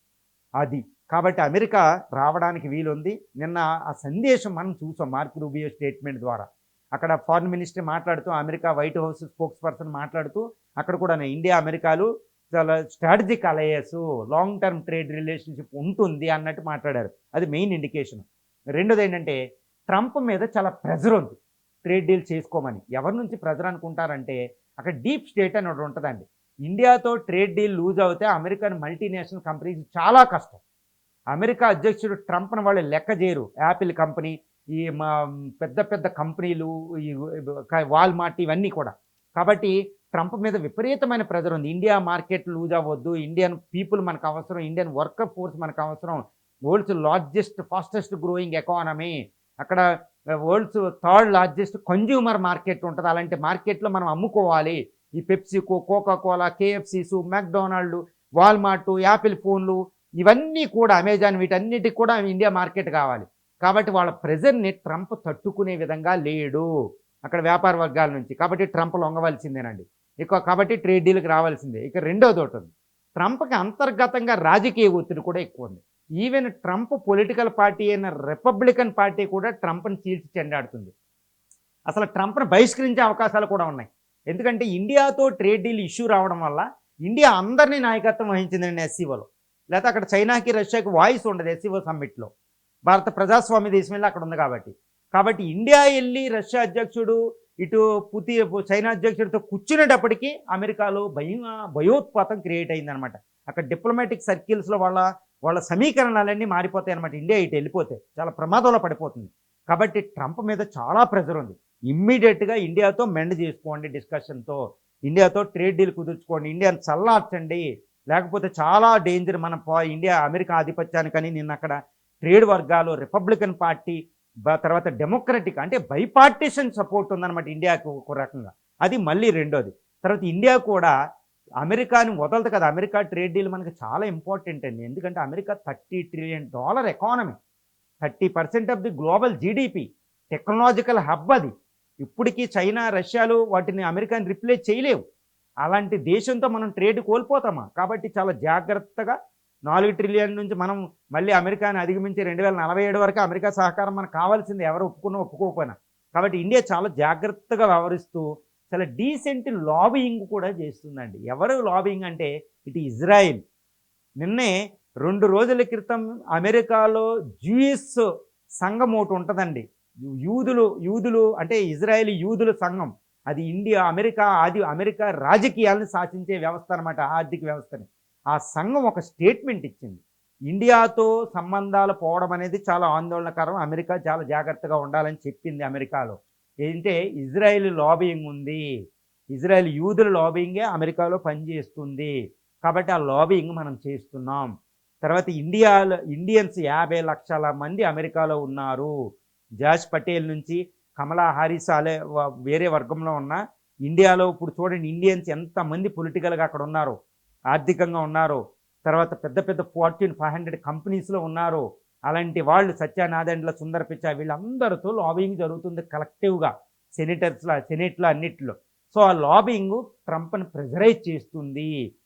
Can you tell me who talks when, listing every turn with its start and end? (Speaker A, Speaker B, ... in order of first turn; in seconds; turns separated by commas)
Speaker A: 0.6-19.4, Speaker A: 19.9-30.6, Speaker A: 31.3-49.8, Speaker A: 50.4-66.7, Speaker A: 67.2-80.9, Speaker A: 81.9-92.3, Speaker A: 92.8-130.9, Speaker A: 131.6-137.3, Speaker A: 138.0-141.5, Speaker A: 142.0-145.0, Speaker A: 145.6-149.1, Speaker A: 149.7-163.4, Speaker A: 164.2-168.0, Speaker A: 168.6-169.6, Speaker A: 170.2-188.6, Speaker A: 189.3-194.5, Speaker A: 195.0-198.9, Speaker A: 199.6-206.9, Speaker A: 207.5-221.7